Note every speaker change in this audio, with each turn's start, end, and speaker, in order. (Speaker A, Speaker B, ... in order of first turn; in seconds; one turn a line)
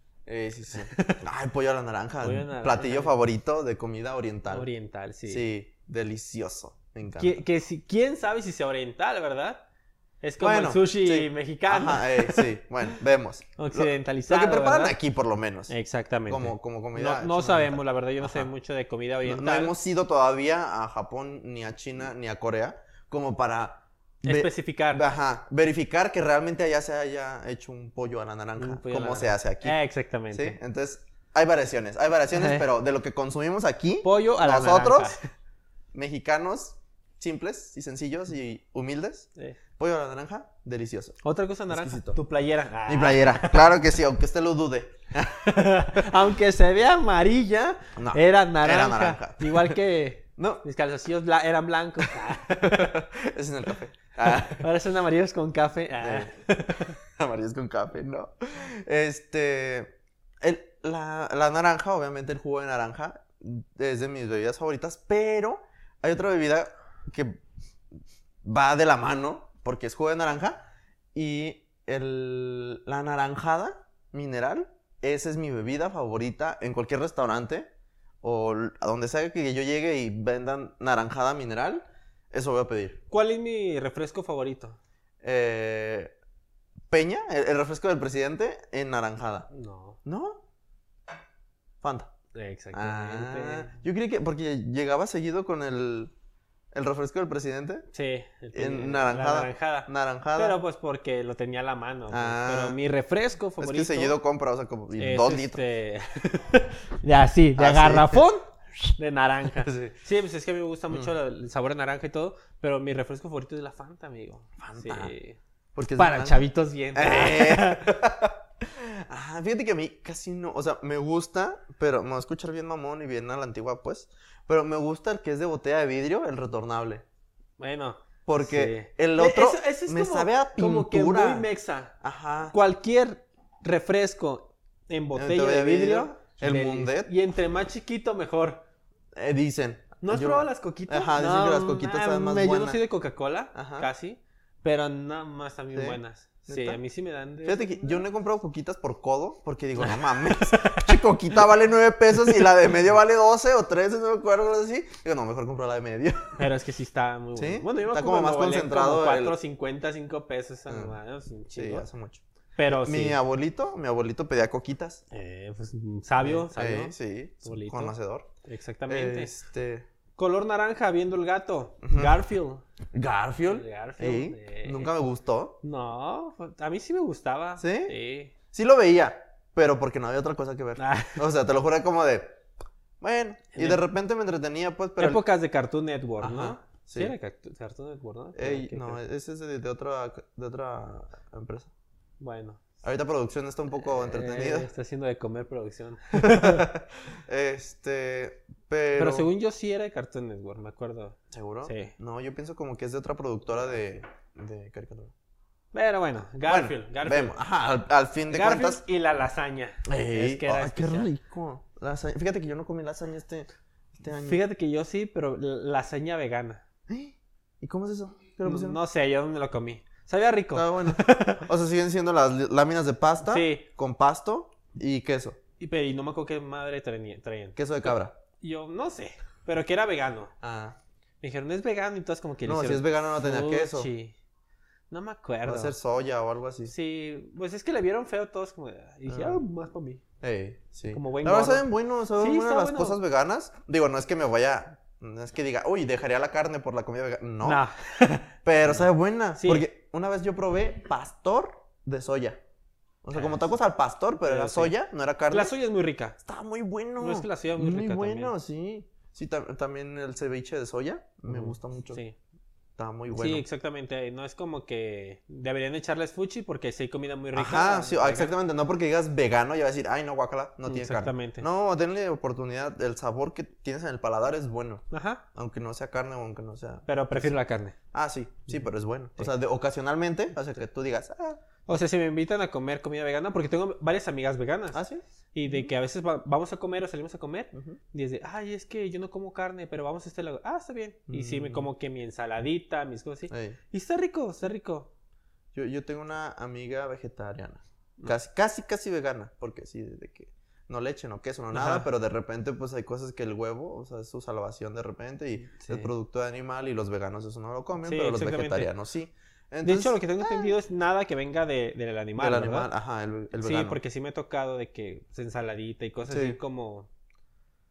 Speaker A: 0.3-4.7
Speaker B: 0.8-1.3
Speaker B: 2.2-3.1
Speaker B: 4.5-5.5
Speaker A: 5.3-7.4
Speaker B: 7.2-9.6
Speaker B: 10.2-12.5
Speaker A: 10.4-15.7
Speaker B: 13.6-15.0
Speaker B: 15.7-19.8
Speaker A: 16.3-18.5
Speaker A: 19.2-29.8
Speaker B: 24.2-25.0
Speaker B: 28.6-30.6
Speaker A: 30.3-35.2
Speaker B: 32.3-32.7
Speaker B: 34.0-35.2
Speaker A: 35.9-41.2
Speaker B: 41.2-43.7
Speaker A: 41.7-42.2
Speaker A: 42.9-46.1
Speaker B: 45.4-52.9
Speaker A: 48.0-49.8
Speaker A: 50.4-50.6
Speaker A: 52.5-54.7
Speaker B: 54.2-57.0
Speaker A: 56.0-56.3
Speaker A: 56.9-67.4
Speaker A: 68.4-70.6
Speaker A: 71.1-77.7
Speaker A: 78.2-83.0
Speaker B: 83.1-84.8
Speaker A: 85.2-86.1
Speaker A: 86.9-89.5
Speaker B: 89.5-90.0
Speaker A: 90.0-90.4
Speaker A: 91.8-92.1
Speaker B: 92.3-93.8
Speaker A: 92.7-96.1
Speaker A: 96.7-97.9
Speaker B: 97.9-104.2
Speaker A: 98.5-100.6
Speaker A: 102.1-102.8
Speaker A: 103.6-105.6
Speaker B: 105.0-115.4
Speaker A: 107.6-108.3
Speaker A: 109.6-109.9
Speaker A: 114.6-115.1
Speaker A: 115.8-127.0
Speaker B: 116.0-118.0
Speaker B: 127.6-131.9
Speaker A: 128.3-131.5
Speaker A: 132.0-132.6
Speaker B: 132.5-138.6
Speaker A: 135.2-137.1
Speaker A: 139.2-142.8
Speaker B: 140.0-148.0
Speaker A: 143.5-143.9
Speaker A: 145.7-146.8
Speaker A: 147.4-156.4
Speaker B: 149.8-151.0
Speaker B: 156.4-161.9
Speaker A: 157.4-159.4
Speaker A: 160.7-161.0
Speaker A: 161.6-162.2
Speaker B: 162.6-163.2
Speaker A: 162.8-165.0
Speaker B: 165.1-167.9
Speaker A: 166.2-168.3
Speaker B: 168.4-169.3
Speaker A: 168.9-169.9
Speaker B: 170.2-172.6
Speaker A: 171.8-172.2
Speaker A: 172.9-175.6
Speaker B: 173.5-174.9
Speaker B: 175.6-178.3
Speaker A: 177.6-178.0
Speaker A: 178.5-182.4
Speaker B: 180.8-181.2
Speaker A: 183.0-185.2
Speaker B: 183.6-183.9
Speaker B: 185.0-189.0
Speaker A: 186.2-187.2
Speaker A: 188.4-191.7
Speaker B: 192.2-192.6
Speaker A: 192.8-194.7
Speaker B: 193.8-196.7
Speaker A: 196.1-199.3
Speaker B: 199.0-201.9
Speaker A: 201.3-205.1
Speaker B: 205.7-207.4
Speaker A: 206.5-208.8
Speaker B: 208.3-211.1
Speaker A: 209.9-213.5
Speaker A: 214.0-214.4
Speaker B: 214.2-216.6
Speaker A: 216.9-218.8
Speaker B: 218.4-221.5
Speaker A: 220.5-225.4
Speaker B: 223.2-223.7
Speaker B: 225.6-230.3
Speaker A: 227.6-228.2
Speaker A: 230.4-230.8
Speaker B: 231.2-234.2
Speaker A: 232.5-233.9
Speaker B: 234.9-235.8
Speaker A: 235.4-236.7
Speaker B: 236.7-240.0
Speaker A: 239.1-239.4
Speaker A: 240.2-247.6
Speaker B: 240.9-243.0
Speaker B: 247.4-248.9
Speaker A: 248.4-252.4
Speaker B: 249.4-249.7
Speaker A: 253.0-255.5
Speaker B: 253.1-253.5
Speaker B: 254.2-254.8
Speaker B: 255.3-256.2
Speaker A: 256.2-262.0
Speaker B: 257.0-258.3
Speaker B: 261.3-262.2
Speaker A: 262.8-263.4
Speaker B: 263.1-268.3
Speaker A: 267.4-277.4
Speaker B: 270.7-271.4
Speaker B: 274.9-275.2
Speaker B: 276.9-277.8
Speaker A: 277.9-281.4
Speaker B: 281.7-284.8
Speaker A: 284.7-285.7
Speaker B: 285.3-294.9
Speaker A: 287.5-287.8
Speaker A: 291.1-291.7
Speaker A: 293.3-293.6
Speaker A: 295.5-310.5
Speaker B: 301.5-301.9
Speaker B: 305.6-305.9
Speaker B: 307.8-308.7
Speaker B: 309.6-312.7
Speaker A: 312.2-313.8
Speaker B: 313.3-316.9
Speaker A: 316.1-316.4